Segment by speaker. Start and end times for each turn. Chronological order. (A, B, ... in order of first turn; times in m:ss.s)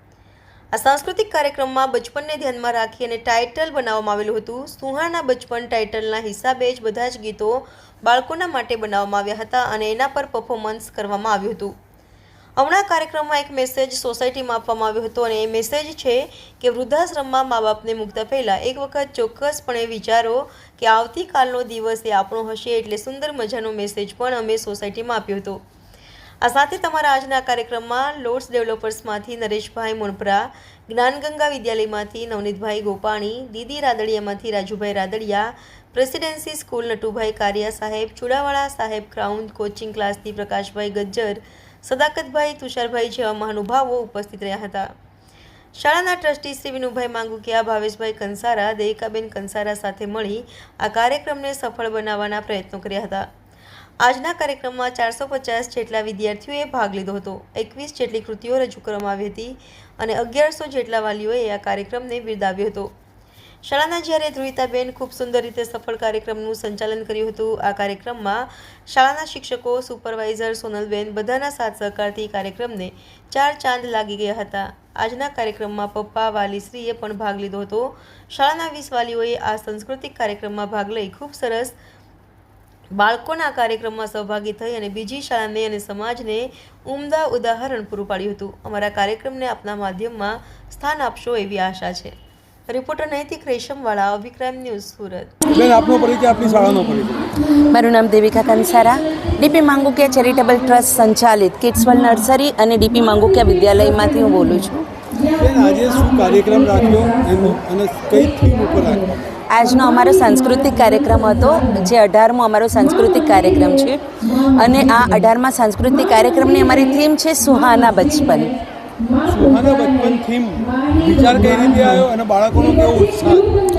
0:00.7-0:11.7 A
0:12.6-0:25.6 A
0:26.4-0:44.9 A
0:45.8-0:53.3 A
0:54.0-1:02.9 A
1:03.6-1:21.7 A
1:22.9-1:32.1 A
1:32.7-1:35.3 A
1:35.5-1:37.3 B
1:37.6-1:44.8 C
1:45.3-1:49.2 B
1:49.5-1:58.6 C
1:59.2-2:03.5 B